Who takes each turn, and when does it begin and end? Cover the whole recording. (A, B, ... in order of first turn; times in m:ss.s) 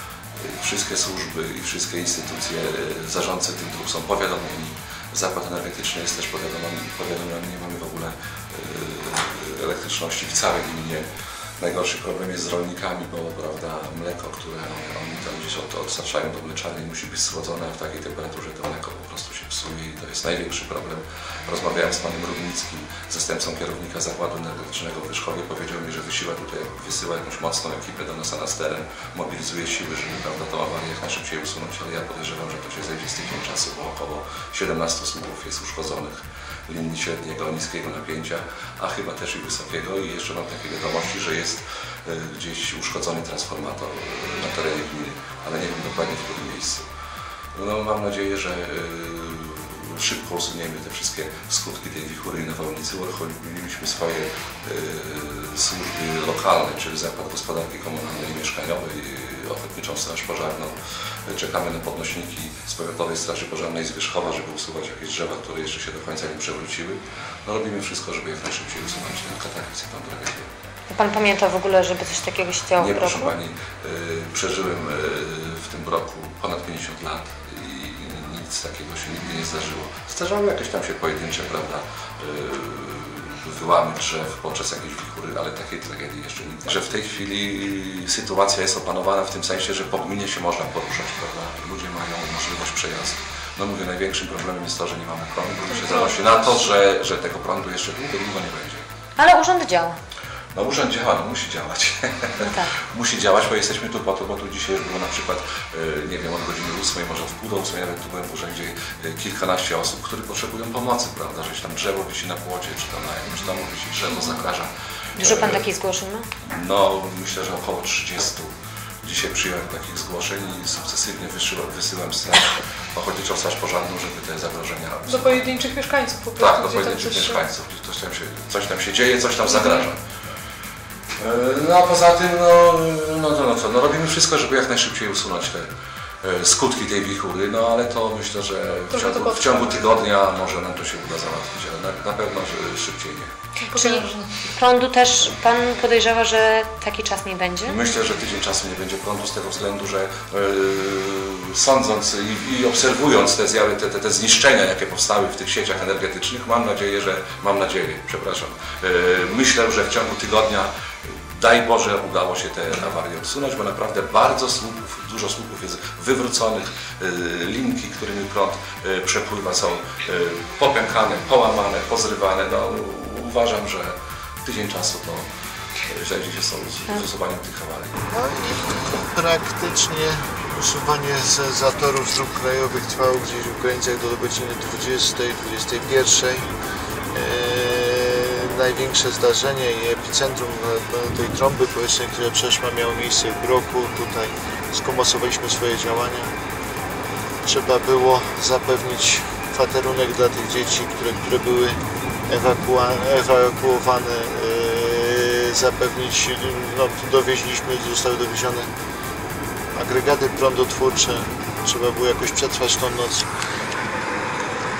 0:00.4-0:11.1 A
0:11.6-0:46.8 A
0:47.5-1:10.5 A
1:10.9-1:13.3 B
1:12.8-1:38.8 A
1:35.8-1:36.1 C
1:39.2-1:40.0 B
1:40.5-1:55.7 A
1:42.4-1:42.8 B
1:55.2-1:56.3 B
1:56.4-2:05.7 A
2:05.1-2:07.4 C
2:06.4-2:10.0 A
2:09.5-2:09.8 C
2:11.2-2:15.7 A
2:16.2-2:23.3 A
2:18.9-2:19.6 C
2:23.6-2:24.3 C
2:23.7-2:27.8 B
2:27.6-2:55.3 A
2:55.8-2:57.9 A
2:58.1-3:06.5 D
3:07.1-3:16.3 D
3:17.4-3:28.7 D
3:29.7-3:33.3 D